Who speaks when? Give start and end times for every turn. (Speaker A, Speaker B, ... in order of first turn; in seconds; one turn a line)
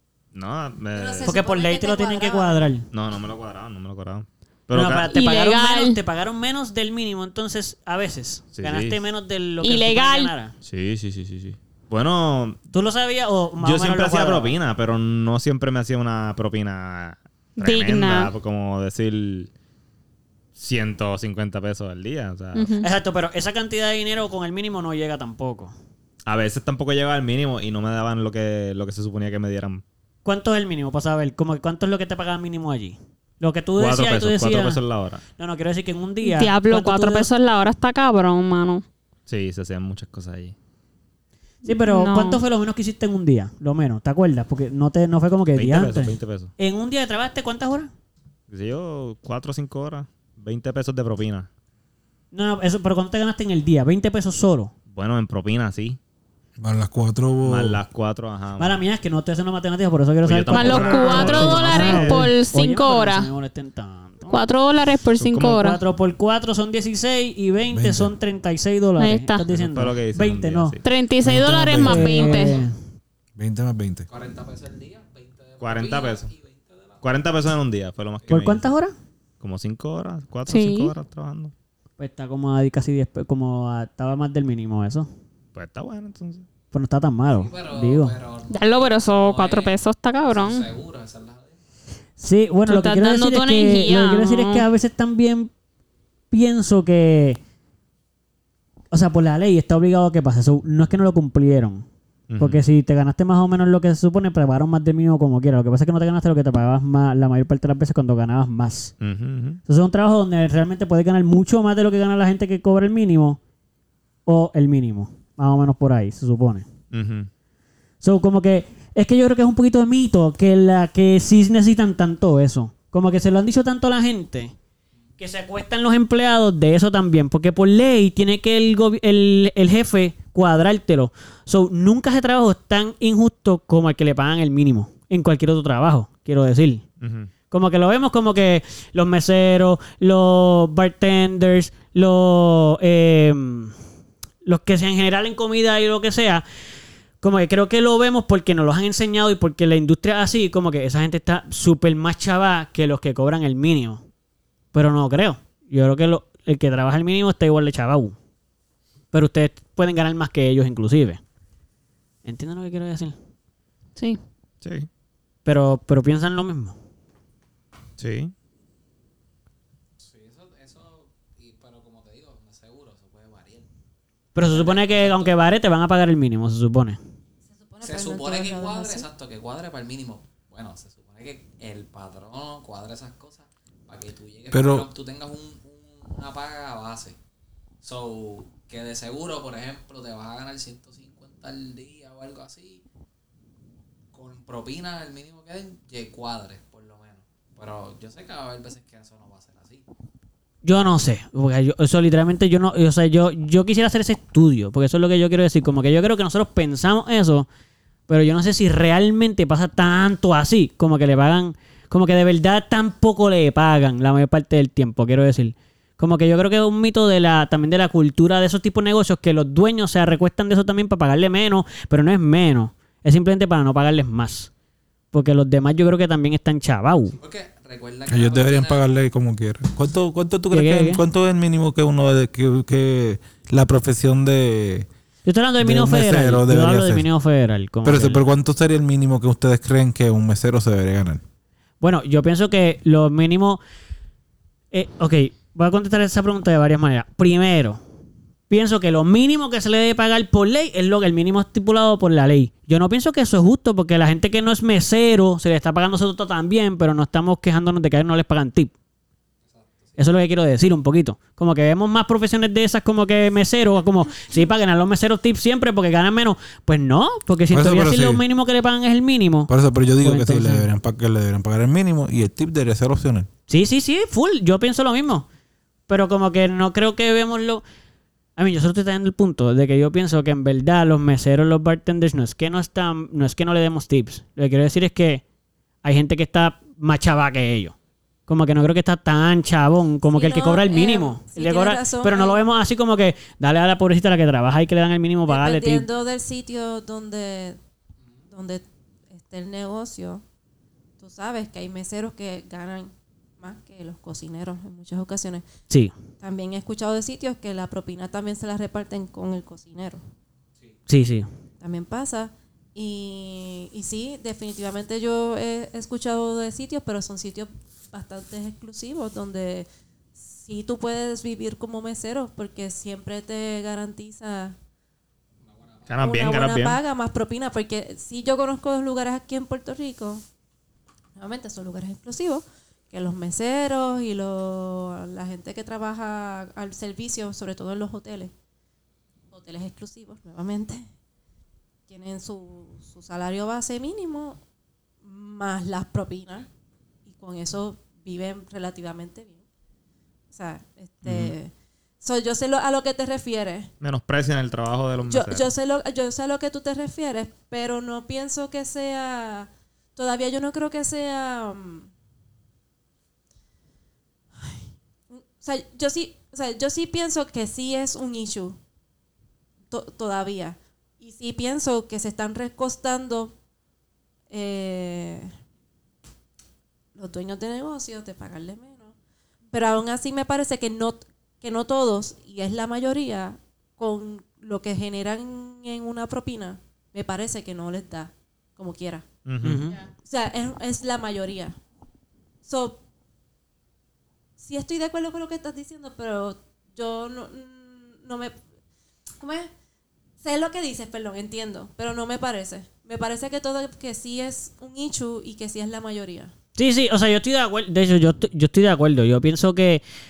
Speaker A: 0.3-1.4
Speaker B: 0.9-2.6
Speaker C: 1.2-2.9
Speaker A: 2.9-5.1
Speaker C: 4.7-10.5
Speaker D: 5.1-6.0
Speaker A: 8.6-9.0
Speaker D: 9.6-10.3
Speaker A: 10.6-12.6
Speaker C: 12.7-14.6
Speaker A: 13.6-19.5
Speaker D: 17.6-18.3
Speaker A: 20.6-22.8
Speaker D: 22.5-22.9
Speaker C: 22.8-25.7
Speaker A: 26.2-29.8
Speaker C: 30.2-34.8
Speaker A: 33.8-35.2
Speaker C: 35.4-37.3
Speaker D: 36.2-38.8
Speaker A: 39.3-40.5
Speaker D: 41.7-42.4
Speaker C: 41.7-47.9
Speaker A: 45.6-46.5
Speaker A: 48.5-51.5
Speaker C: 52.3-54.7
Speaker A: 54.9-56.0
Speaker E: 56.6-57.8
Speaker A: 57.5-58.8
Speaker C: 58.6-64.4
Speaker A: 60.2-62.3
Speaker D: 60.5-63.3
Speaker D: 64.3-65.8
Speaker A: 65.2-65.6
Speaker C: 65.5-70.8
Speaker E: 67.7-68.1
Speaker D: 69.0-69.5
Speaker A: 69.5-70.8
Speaker D: 70.8-72.6
Speaker E: 71.2-72.3
Speaker C: 71.8-72.8
Speaker E: 73.4-74.1
Speaker F: 74.1-77.1
Speaker A: 75.6-76.3
Speaker A: 77.0-78.7
Speaker C: 78.3-78.9
Speaker A: 79.4-81.5
Speaker D: 80.5-80.9
Speaker C: 82.0-85.1
Speaker A: 85.5-86.5
Speaker C: 86.7-88.2
Speaker F: 87.3-91.6
Speaker D: 88.5-90.7
Speaker C: 92.2-95.5
Speaker D: 92.7-94.7
Speaker C: 96.3-97.4
Speaker C: 98.9-101.8
Speaker A: 102.3-102.6
Speaker C: 102.4-108.9
Speaker A: 109.0-109.6
Speaker C: 109.7-113.4
Speaker C: 114.3-116.7
Speaker A: 116.9-117.3
Speaker C: 118.0-124.5
Speaker C: 125.2-136.8
Speaker A: 137.0-137.3
Speaker C: 137.5-143.8
Speaker C: 144.4-146.4
Speaker C: 147.2-154.0
Speaker C: 154.7-158.2
Speaker C: 159.1-161.2
Speaker C: 162.2-163.2
Speaker A: 164.6-164.9
Speaker C: 165.4-166.8
Speaker A: 168.0-168.3
Speaker F: 170.0-173.7
Speaker C: 174.3-177.0
Speaker F: 174.4-175.4
Speaker B: 177.5-179.1
Speaker F: 177.8-187.2
Speaker E: 184.5-184.9
Speaker F: 187.8-192.8
Speaker F: 194.1-199.8
Speaker C: 200.6-207.5
Speaker C: 208.1-224.5
Speaker C: 225.1-227.2
Speaker F: 227.2-228.9
Speaker E: 228.1-234.9
Speaker C: 230.5-231.0
Speaker C: 235.3-238.3
Speaker E: 235.6-237.1
Speaker E: 237.8-241.2
Speaker C: 241.8-243.6
Speaker C: 244.7-247.8
Speaker C: 248.5-258.7
Speaker F: 259.4-260.2
Speaker C: 260.0-270.7
Speaker E: 267.5-268.2
Speaker E: 269.5-273.3
Speaker C: 273.5-275.3
Speaker C: 275.9-277.6
Speaker C: 278.4-285.2
Speaker C: 285.8-287.8
Speaker C: 288.3-295.9
Speaker B: 290.1-292.4
Speaker B: 295.3-297.6
Speaker B: 298.3-300.2
Speaker B: 301.0-305.4
Speaker B: 306.2-310.0
Speaker C: 310.9-311.3
Speaker B: 311.6-324.6
Speaker F: 325.4-326.0
Speaker A: 325.9-326.8
Speaker B: 326.0-330.2
Speaker B: 331.2-338.3
Speaker B: 339.3-340.9
Speaker B: 341.9-344.4
Speaker B: 345.0-346.5
Speaker B: 347.1-349.4
Speaker B: 350.3-353.7
Speaker A: 351.0-351.4
Speaker A: 353.8-355.5
Speaker B: 355.1-361.9
Speaker B: 364.4-368.6
Speaker B: 369.7-373.4
Speaker B: 374.3-375.3
Speaker B: 376.9-378.9
Speaker B: 379.5-389.1
Speaker A: 389.2-389.7
Speaker C: 389.4-389.8
Speaker B: 390.0-391.6
Speaker B: 392.4-392.8
Speaker B: 394.4-398.4
Speaker B: 399.2-399.5
Speaker B: 400.2-406.3
Speaker C: 406.6-409.8